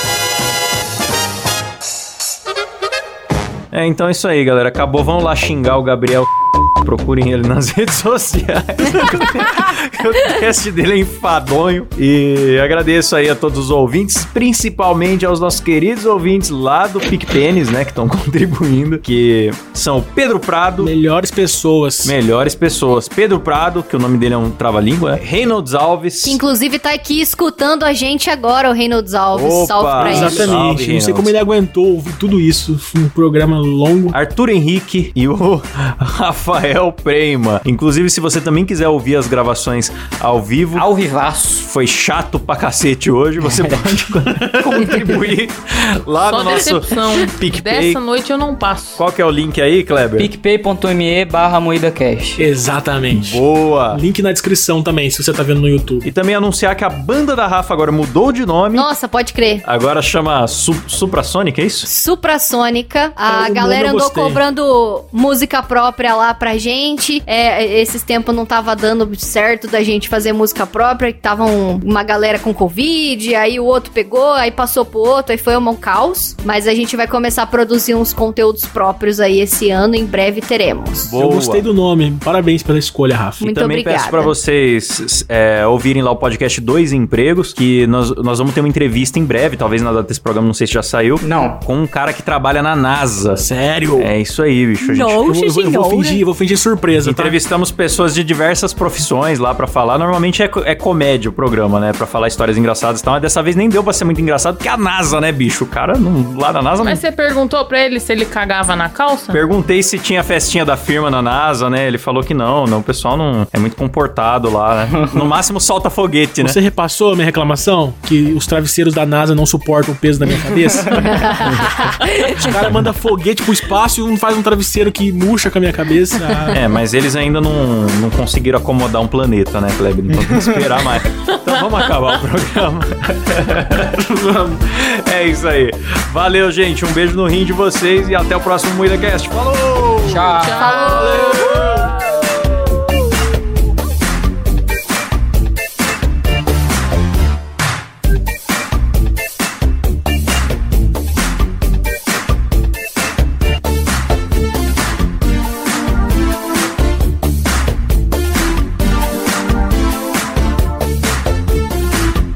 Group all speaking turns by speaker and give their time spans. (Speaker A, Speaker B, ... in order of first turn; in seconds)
Speaker A: 3.7-20.9, 22.0-26.4, 29.3-31.4, 34.1-40.9, 41.7-48.0, 49.0-50.3, 53.1-54.0, 56.0-58.9, 59.6-61.9, 81.1-81.7, 83.4-95.3, 97.0-107.0, 109.3-116.6, 122.5-122.9, 126.5-134.1, 134.6-140.3, 141.5-141.8
Speaker B: 20.8-22.1, 29.9-34.2, 43.4-45.2, 52.4-56.1, 63.3-64.4, 81.1-83.4, 93.4-94.1, 95.2-97.4, 116.4-121.7, 122.3-126.6, 133.9-134.6, 140.8-142.0
Speaker C: 26.2-30.6, 58.8-59.6, 61.9-81.1, 83.4-84.3, 94.8-96.2, 121.1-122.5, 140.6-141.7
Speaker D: 40.8-41.7, 50.2-52.5, 91.2-91.6, 95.8-96.2, 114.9-115.3, 130.3-130.6, 140.0-140.8
Speaker E: 46.3-49.0, 106.8-109.4, 131.3-132.1, 140.3-141.5